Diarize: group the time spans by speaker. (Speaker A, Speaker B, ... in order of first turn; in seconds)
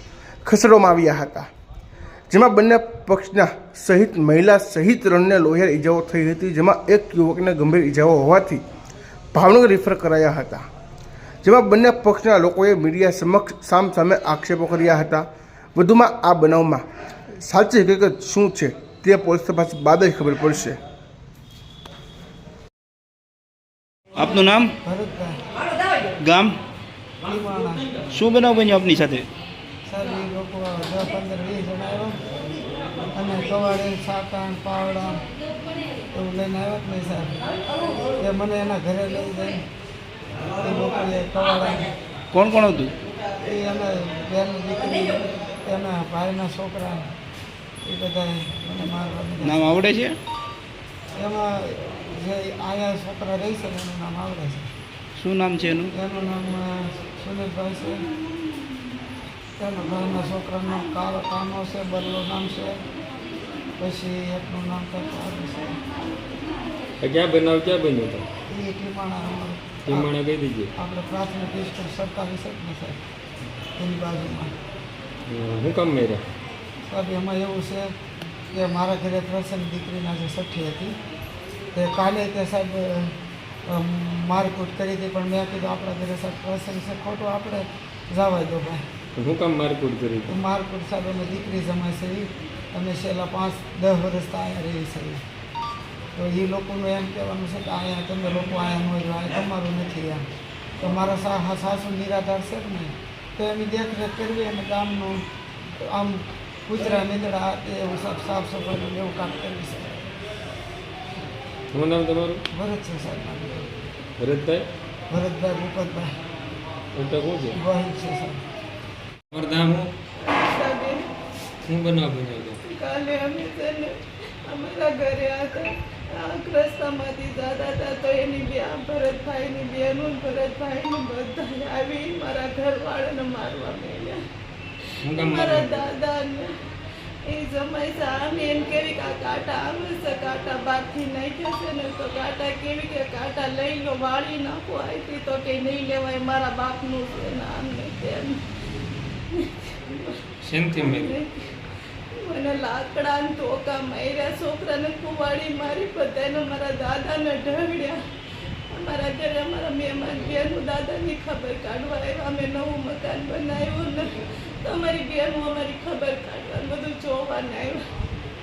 Speaker A: 0.5-1.5, 2.3-8.6, 9.3-10.7, 11.4-16.8, 17.4-20.8
Speaker B: 24.2-24.7, 26.2-26.6, 28.1-29.3, 42.3-42.9, 49.4-50.2, 55.2-55.9
Speaker C: 24.8-25.4, 27.2-27.9, 29.9-32.2, 33.1-35.2, 36.1-37.4, 38.2-39.6, 40.5-41.9, 43.4-47.1, 47.8-49.8, 51.1-54.7, 55.9-58.1, 59.6-62.8, 63.8-65.8, 68.5-70.1, 70.8-73.0, 73.8-74.5, 76.9-77.9, 78.5-81.0, 81.7-88.9, 90.3-95.2, 96.2-100.2, 100.8-110.1, 112.5-113.7, 115.1-116.1, 117.5-118.4
Speaker D: 67.0-68.2, 69.9-70.7, 75.3-76.2, 89.2-90.3, 111.7-112.4, 114.2-114.7, 117.0-117.6, 119.3-119.9, 121.7-122.6, 135.0-135.8, 150.4-151.2
Speaker E: 120.2-121.1, 122.6-134.2, 135.1-136.5, 137.3-148.4, 149.3-151.6, 152.2-158.0, 158.7-167.9